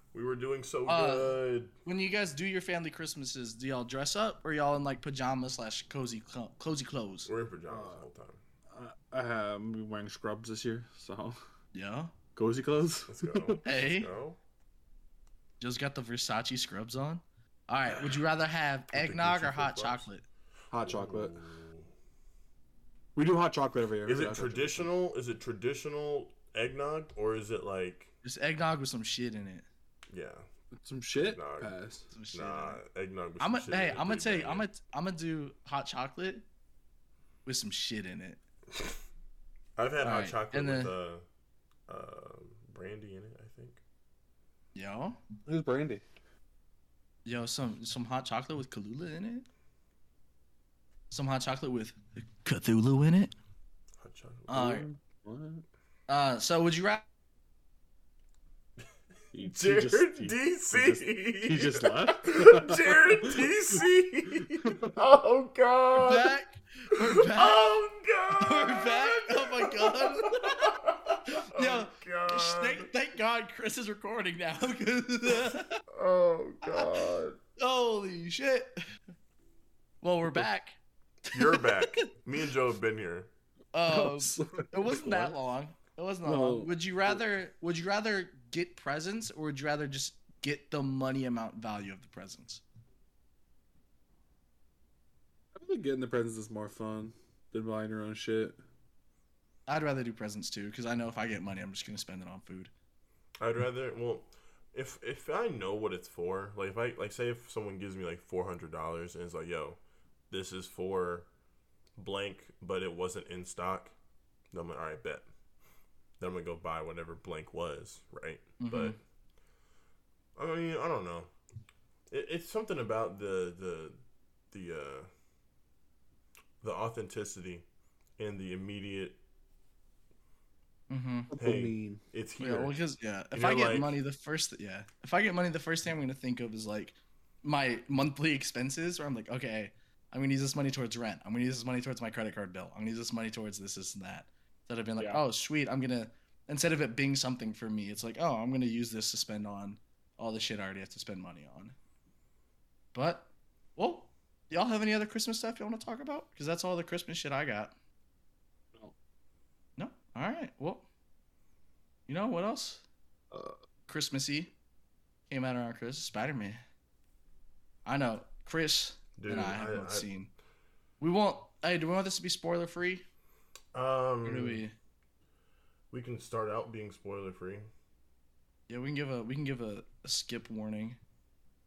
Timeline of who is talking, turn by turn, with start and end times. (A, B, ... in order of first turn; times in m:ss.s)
0:00.1-0:01.7 A
0:00.9-0:07.3 B
0:07.3-0:08.4 A
0:07.7-0:08.0 C
0:08.7-0:11.4 C
0:11.7-0:12.1 B
0:12.3-0:13.6 C
0:13.1-0:14.4 A
0:13.6-0:14.1 B
0:15.6-0:20.2 B
0:17.9-0:18.2 A
0:18.9-0:20.1 A
0:20.7-0:21.4 C
0:20.8-0:21.9 A
0:23.2-0:24.9 C
0:24.0-0:28.1 A
0:28.2-0:29.6 B
0:30.1-0:30.4 A
0:30.8-0:32.1 C
0:31.2-0:31.7 A
0:32.1-0:32.8 B
0:32.3-0:34.7 A
0:33.4-0:36.4 B
0:37.4-0:38.4 B
0:39.8-0:41.2 A
0:40.0-0:40.9 B
0:41.9-0:43.8 A
0:44.7-0:45.2 B
0:45.5-0:46.0 C
0:47.2-0:49.5 B
0:51.1-0:53.3 B
0:54.0-0:54.8 A
0:54.5-0:54.8 B
0:54.5-0:55.6 C
0:56.1-0:57.0 B
0:59.3-1:03.5 C
0:59.5-1:06.3 A
1:04.6-1:05.0 C
1:06.0-1:07.7 B
1:07.0-1:12.9 A
1:08.3-1:10.7 B
1:11.3-1:15.8 B
1:15.9-1:17.4 A
1:16.6-1:17.0 B
1:17.6-1:18.8 B
1:20.0-1:22.1 B
1:21.3-1:23.3 A
1:23.7-1:32.6 B
1:23.9-1:25.3 C
1:26.2-1:27.2 C
1:35.5-1:38.6 C
1:39.7-1:42.7 B
1:43.4-1:51.3 A
1:52.0-1:53.9 A
1:54.5-1:55.3 A
1:56.2-1:59.0 A
1:58.6-1:59.0 B
2:00.4-2:01.3 A
2:02.1-2:04.0 A
2:04.5-2:05.1 A
2:06.6-2:07.6 A
2:08.2-2:09.2 A
2:10.9-2:11.3 B
2:11.3-2:12.0 C
2:11.4-2:12.7 A
2:12.4-2:31.8 B
2:13.3-2:14.0 A
2:32.9-2:37.7 B
2:39.8-2:40.8 B
2:42.1-2:42.8 B
2:43.9-2:44.5 B
2:45.3-2:46.6 B
2:47.8-2:50.3 B
2:49.2-2:50.1 A
2:51.0-2:53.0 B
2:53.7-2:54.6 A
2:54.2-2:54.7 B
2:55.9-2:57.7 A
2:58.7-3:01.0 B